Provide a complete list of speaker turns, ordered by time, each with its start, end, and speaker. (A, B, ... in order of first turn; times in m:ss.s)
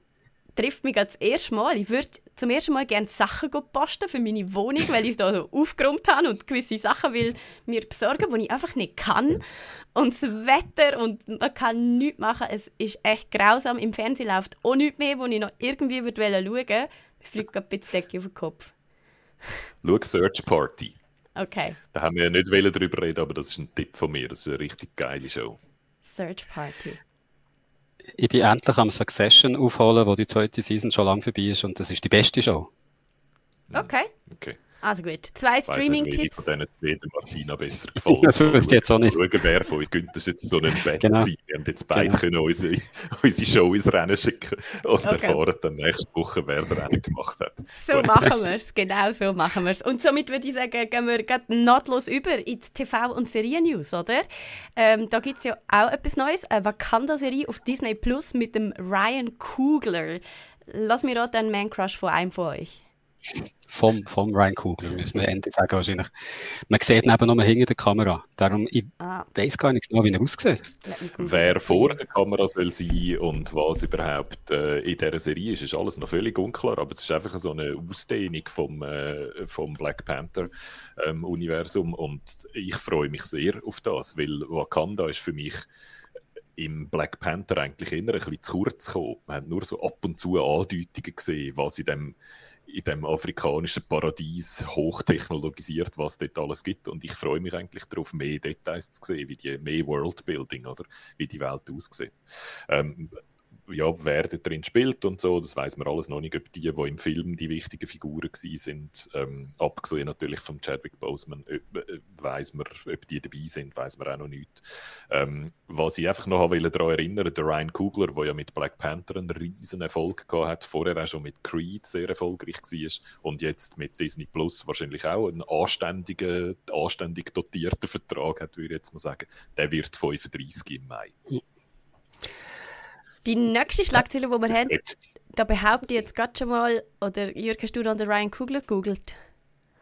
0:00.6-0:09.4 A
0:10.0-0:18.7 A
0:19.8-0:21.0 B
0:21.4-0:21.8 A
0:21.9-0:25.6 B
0:26.0-0:27.0 A
0:28.2-0:32.7 C
0:33.7-0:34.6 B
0:33.7-0:34.1 A
0:34.8-0:36.4 A
0:35.7-0:48.3 B
0:38.1-0:39.2 C
0:41.0-0:41.3 C
0:45.0-0:45.4 A
0:47.7-1:02.8 A
1:03.7-1:10.6 C
1:10.8-1:12.0 A
1:11.2-1:25.6 B
1:26.6-1:42.2 B
1:42.7-2:11.2 B
2:13.2-2:14.8 A
2:15.3-2:19.2 A